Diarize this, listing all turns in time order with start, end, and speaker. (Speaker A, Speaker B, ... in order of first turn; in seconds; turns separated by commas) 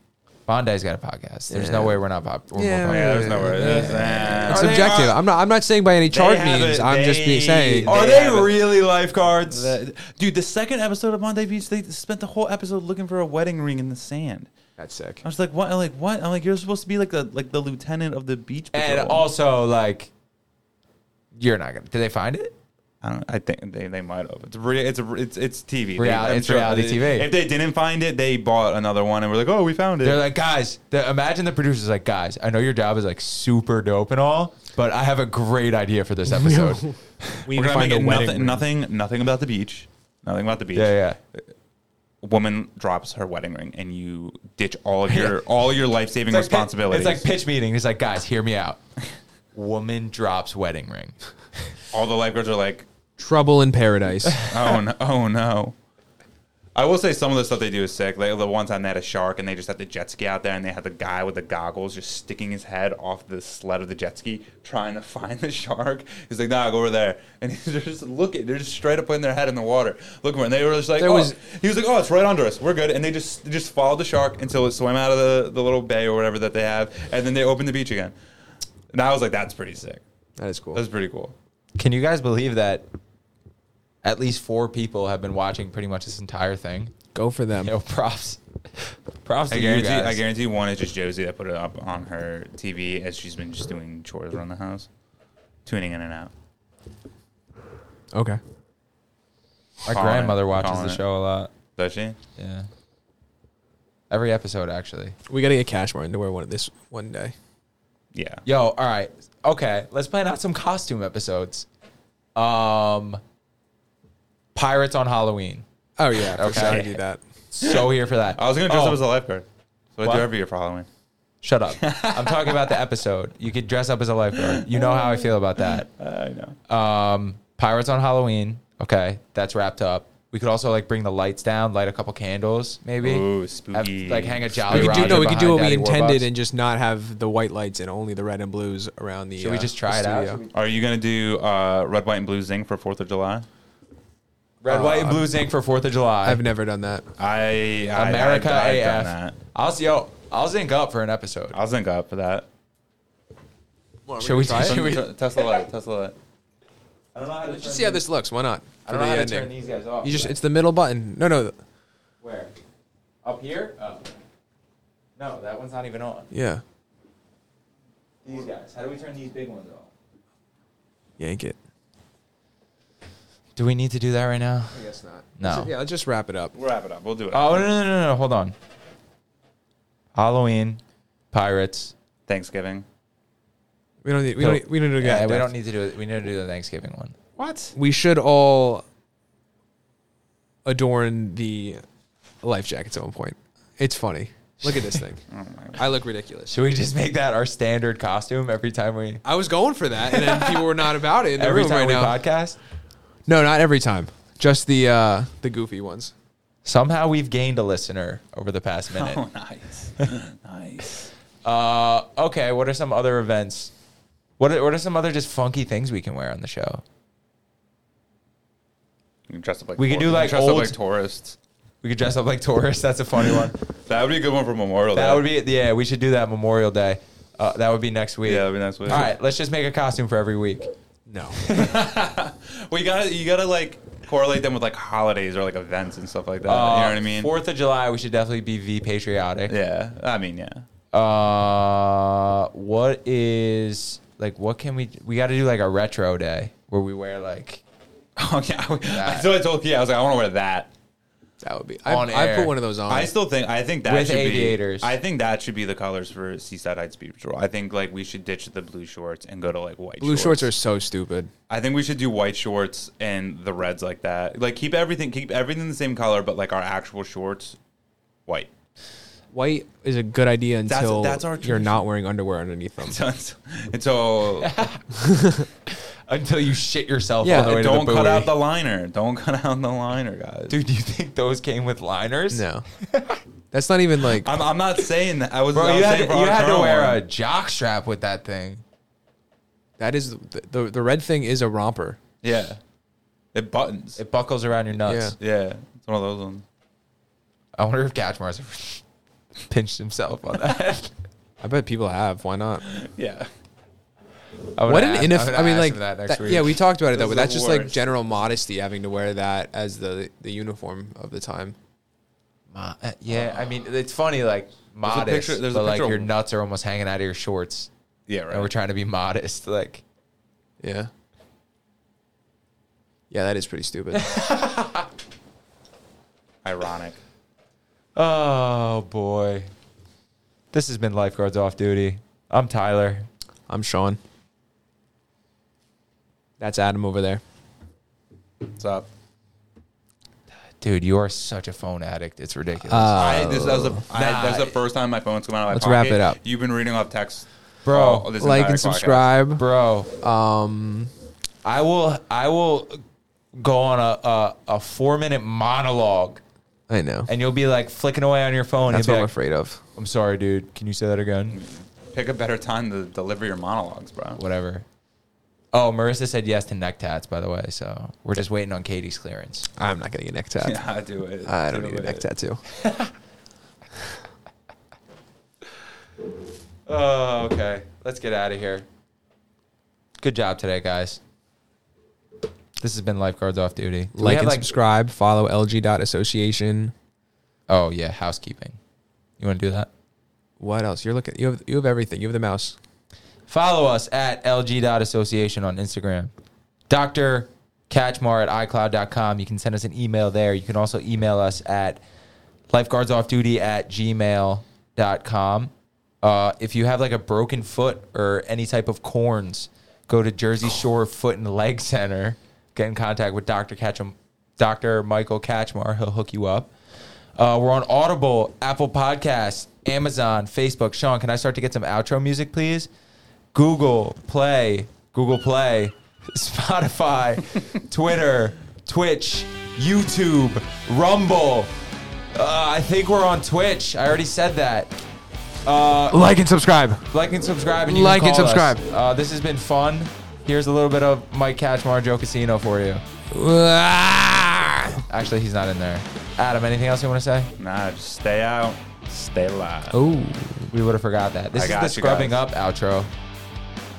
Speaker A: 0.5-5.2, Speaker B: 1.5-2.0, Speaker B: 2.5-7.9, Speaker C: 2.9-5.1, Speaker C: 6.1-8.8, Speaker A: 7.8-9.8, Speaker C: 9.4-14.5, Speaker B: 14.8-15.2, Speaker C: 15.2-19.3, Speaker A: 18.7-20.1, Speaker A: 21.3-22.6, Speaker C: 23.0-30.2, Speaker A: 26.0-27.3, Speaker A: 30.0-37.4, Speaker B: 36.3-38.6, Speaker C: 37.5-41.4, Speaker A: 40.7-41.2, Speaker C: 42.2-47.3, Speaker A: 46.3-48.8, Speaker A: 49.5-51.7, Speaker C: 51.9-52.9, Speaker B: 53.2-54.4, Speaker C: 54.4-55.7, Speaker C: 56.7-78.1, Speaker B: 71.0-71.4, Speaker C: 78.9-80.0, Speaker B: 80.4-80.8, Speaker C: 80.7-81.3, Speaker A: 81.8-82.8, Speaker A: 84.0-86.9, Speaker B: 87.1-87.7, Speaker A: 87.6-90.2, Speaker C: 89.5-94.9, Speaker C: 95.6-96.3, Speaker B: 98.1-98.4, Speaker A: 99.8-101.5, Speaker C: 99.9-101.0, Speaker C: 101.8-102.2, Speaker A: 102.3-102.7, Speaker A: 104.1-105.1, Speaker B: 105.3-107.3, Speaker C: 108.1-108.4, Speaker A: 108.5-111.7, Speaker A: 112.3-113.2, Speaker A: 114.5-115.6, Speaker B: 116.0-117.2, Speaker A: 116.3-116.9, Speaker C: 116.5-116.8, Speaker A: 117.5-119.0, Speaker C: 117.6-120.9, Speaker A: 120.0-120.3, Speaker A: 121.4-125.9, Speaker C: 121.8-122.8, Speaker C: 124.3-126.6, Speaker A: 126.7-136.3, Speaker C: 133.0-135.3, Speaker B: 134.7-140.4, Speaker A: 139.4-140.5, Speaker C: 140.5-143.4, Speaker A: 144.6-146.4, Speaker B: 144.7-145.2, Speaker B: 146.2-147.1, Speaker C: 147.2-149.4, Speaker A: 147.9-151.6, Speaker C: 151.5-152.4, Speaker B: 154.1-154.8, Speaker A: 154.2-155.6, Speaker C: 154.5-156.1, Speaker A: 157.1-158.0, Speaker B: 157.4-161.6, Speaker A: 158.8-160.4, Speaker A: 162.2-162.5, Speaker A: 163.2-164.1, Speaker A: 165.2-166.3, Speaker B: 166.3-166.6, Speaker A: 168.2-169.9, Speaker B: 171.2-171.6, Speaker A: 173.6-174.8, Speaker B: 174.7-176.5, Speaker A: 175.4-175.7, Speaker C: 176.5-177.7, Speaker A: 177.3-178.6, Speaker A: 180.1-180.8, Speaker A: 181.3-181.9, Speaker C: 182.3-182.8, Speaker B: 184.0-185.5, Speaker A: 184.4-187.3, Speaker C: 187.4-187.7, Speaker B: 187.7-188.8, Speaker B: 190.6-191.8, Speaker B: 192.4-195.2, Speaker C: 195.3-195.8, Speaker B: 195.8-196.6, Speaker A: 196.5-199.2, Speaker B: 199.2-202.2, Speaker A: 200.0-202.6, Speaker B: 203.3-206.1, Speaker A: 206.6-209.2, Speaker C: 208.9-211.1, Speaker A: 211.4-213.7, Speaker A: 214.4-216.8, Speaker C: 219.3-221.4, Speaker A: 219.8-220.8, Speaker A: 221.8-223.6, Speaker C: 223.3-225.3, Speaker A: 224.9-230.7, Speaker C: 228.2-229.1, Speaker B: 231.1-231.4, Speaker A: 231.4-231.9, Speaker C: 231.5-237.3, Speaker A: 236.4-239.6, Speaker C: 239.5-240.6, Speaker A: 240.9-247.6, Speaker C: 248.2-250.7, Speaker A: 248.9-249.3, Speaker B: 251.4-253.1, Speaker A: 251.8-252.5, Speaker C: 252.9-260.5, Speaker A: 253.8-255.0, Speaker B: 260.0-261.3, Speaker C: 261.5-267.6, Speaker B: 269.3-273.0, Speaker C: 270.7-271.8, Speaker C: 272.8-274.7, Speaker A: 274.4-274.8, Speaker B: 274.9-275.5, Speaker A: 275.7-278.4, Speaker B: 277.2-277.6, Speaker C: 277.3-280.6, Speaker A: 280.5-283.2, Speaker B: 282.3-282.6, Speaker B: 283.5-284.3, Speaker C: 284.2-287.0, Speaker A: 285.5-288.6, Speaker B: 289.8-292.0, Speaker C: 292.2-292.6, Speaker C: 293.3-294.0, Speaker A: 294.0-295.1, Speaker B: 294.9-295.1, Speaker C: 295.2-296.4, Speaker A: 297.6-298.8, Speaker A: 299.5-300.9, Speaker B: 301.4-302.6, Speaker C: 302.6-303.3, Speaker A: 304.6-306.6, Speaker B: 304.7-311.6, Speaker C: 306.9-307.9, Speaker A: 312.5-317.7, Speaker C: 313.1-313.4, Speaker C: 314.9-316.1, Speaker C: 318.1-318.5, Speaker A: 318.3-319.8, Speaker B: 320.6-320.9, Speaker B: 323.1-324.1, Speaker A: 323.9-324.9, Speaker C: 326.4-327.0, Speaker A: 327.9-329.5, Speaker A: 330.5-333.1, Speaker B: 333.5-334.0, Speaker B: 336.4-337.2, Speaker C: 338.6-338.9, Speaker A: 340.6-343.1, Speaker B: 342.7-343.8, Speaker C: 342.9-349.1, Speaker A: 343.9-344.6, Speaker B: 345.5-346.2, Speaker A: 347.6-348.1, Speaker B: 348.2-349.4, Speaker A: 349.4-349.9, Speaker B: 350.0-350.9, Speaker A: 351.4-352.8, Speaker A: 353.4-356.2, Speaker B: 356.7-357.1, Speaker A: 357.1-359.1, Speaker B: 358.7-359.6, Speaker A: 359.8-361.4, Speaker C: 361.3-364.2, Speaker A: 364.1-364.6, Speaker A: 365.5-369.5, Speaker B: 369.6-370.6, Speaker C: 370.4-372.1, Speaker B: 371.2-372.4, Speaker A: 372.6-372.9, Speaker A: 376.7-378.6, Speaker A: 380.0-381.0, Speaker A: 382.6-384.5, Speaker B: 383.9-386.7, Speaker A: 387.5-388.6, Speaker A: 389.2-389.7, Speaker B: 390.4-392.6, Speaker A: 393.3-396.1, Speaker A: 396.7-401.8, Speaker A: 402.5-416.5, Speaker A: 417.1-422.7, Speaker A: 423.3-431.5, Speaker A: 432.1-434.8, Speaker A: 435.4-436.1, Speaker B: 435.9-436.9, Speaker A: 436.9-442.8, Speaker B: 437.6-438.6, Speaker B: 443.1-444.8, Speaker A: 444.9-447.3, Speaker C: 447.4-449.7, Speaker B: 449.7-450.5, Speaker A: 450.5-452.9, Speaker C: 451.4-452.2